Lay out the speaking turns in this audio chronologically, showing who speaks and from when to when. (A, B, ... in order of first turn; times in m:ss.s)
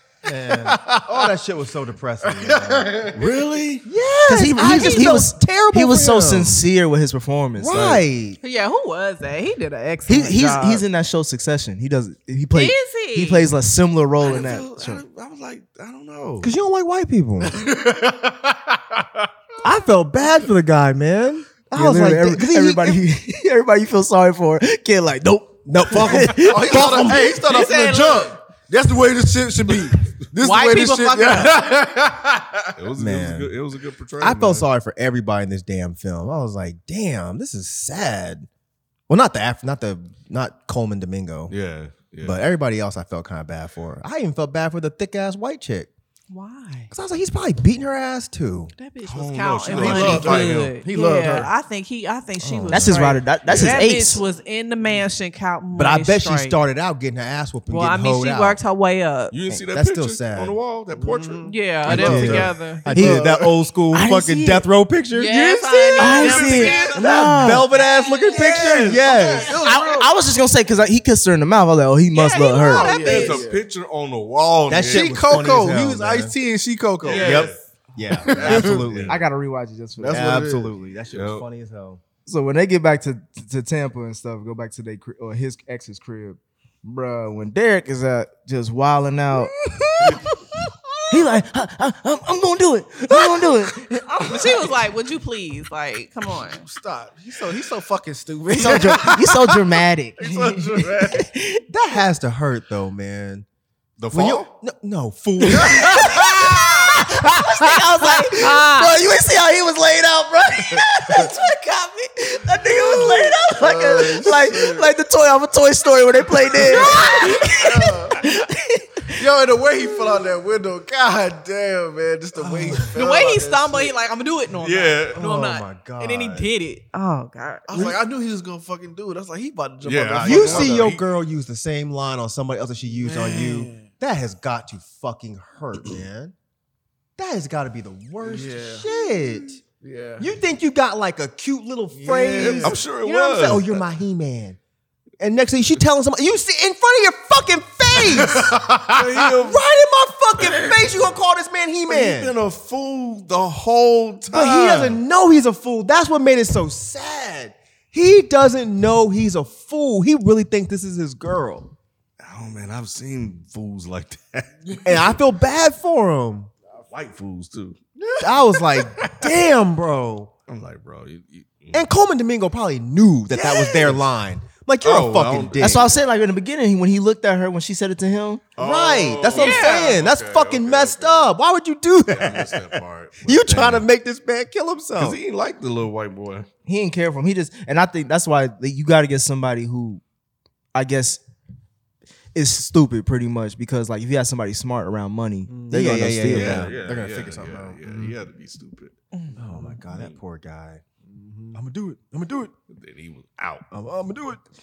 0:00.2-0:03.1 A
0:00.6-0:01.3 B
0:02.2-0:03.3 B
0:03.1-0:03.9 C
0:03.8-0:06.6 A
0:04.2-0:08.0 D
0:04.6-0:05.1 E
0:07.6-0:08.4 A
0:08.4-0:10.8 E
0:10.1-0:15.0 D
0:12.5-0:13.5 E
0:14.2-0:16.5 C
0:16.4-0:17.6 A
0:17.4-0:19.3 B
0:19.6-0:23.0 A
0:21.7-0:27.3 D
0:25.6-0:28.0 A
0:26.1-0:32.7 B
0:27.4-0:28.4 E
0:30.4-0:31.6 E
0:32.8-0:34.7 C
0:32.9-0:33.6 A
0:34.2-0:38.5 A
0:39.1-0:41.6 A
0:41.5-0:42.4 C
0:42.2-0:45.9 A
0:46.3-0:46.9 E
0:46.9-0:48.7 A
0:48.8-0:56.6 E
0:49.0-0:50.7 C
0:49.7-0:51.5 B
0:52.4-0:53.1 A
0:52.7-0:54.2 D
0:53.4-0:53.9 C
0:55.7-0:58.6 A
0:57.7-0:59.4 E
0:59.3-1:02.4 C
0:59.7-1:00.6 A
1:00.9-1:03.6 B
1:01.5-1:02.8 E
1:01.8-1:09.6 A
1:02.9-1:03.3 D
1:03.9-1:04.7 D
1:05.1-1:07.1 E
1:06.0-1:07.7 D
1:06.2-1:06.9 C
1:06.3-1:06.6 B
1:07.7-1:09.0 E
1:08.3-1:10.1 B
1:09.5-1:12.9 D
1:12.1-1:13.4 E
1:12.7-1:13.6 B
1:12.8-1:15.4 C
1:14.7-1:16.3 A
1:14.9-1:17.5 B
1:17.0-1:17.6 C
1:17.1-1:19.2 A
1:17.1-1:17.5 E
1:18.2-1:18.8 B
1:18.4-1:19.2 C
1:18.4-1:20.4 D
1:20.0-1:20.7 B
1:20.1-1:22.0 A
1:21.1-1:21.5 C
1:22.2-1:30.2 D
1:31.1-1:34.7 D
1:34.3-1:36.6 E
1:36.5-1:41.3 B
1:38.5-1:41.6 D
1:41.7-1:43.4 A
1:44.0-1:44.5 C
1:44.1-1:46.4 A
1:45.6-1:59.2 D
1:45.6-1:46.1 B
1:46.4-1:46.9 E
1:48.0-1:48.9 E
1:52.6-1:54.9 B
1:56.6-1:58.2 B
1:59.1-2:03.9 B
2:02.6-2:02.9 A
2:02.9-2:07.7 E
2:04.6-2:05.2 C
2:05.1-2:06.5 A
2:07.7-2:10.8 B
2:07.7-2:08.0 A
2:09.8-2:11.0 C
2:10.2-2:16.3 A
2:13.0-2:13.9 B
2:17.2-2:19.6 A
2:18.2-2:20.3 B
2:20.2-2:24.6 A
2:21.9-2:22.8 B
2:22.3-2:23.8 C
2:25.2-2:28.6 A
2:28.0-2:29.3 B
2:28.9-2:29.6 C
2:29.3-2:32.3 A
2:30.5-2:30.7 C
2:31.9-2:35.0 C
2:34.3-2:41.7 A
2:42.2-2:45.1 C
2:44.8-2:46.5 A
2:46.9-2:47.8 C
2:48.0-2:49.1 B
2:48.2-2:50.3 A
2:50.5-2:51.9 C
2:51.7-2:56.0 A
2:53.3-2:54.1 C
2:54.8-2:55.7 C
2:55.6-2:58.4 D
2:58.6-3:01.3 C
2:58.6-3:05.2 A
2:59.3-3:00.0 E
3:02.1-3:03.8 C
3:05.0-3:06.5 C
3:06.6-3:10.0 D
3:10.7-3:11.2 D
3:12.3-3:16.7 D
3:15.5-3:16.0 B
3:15.7-3:17.8 A
3:16.3-3:18.9 C
3:17.9-3:18.1 B
3:19.1-3:19.4 E
3:19.4-3:20.8 A
3:19.9-3:20.2 C
3:21.1-3:21.6 B
3:21.5-3:22.5 A
3:22.7-3:23.6 C
3:23.7-3:24.4 A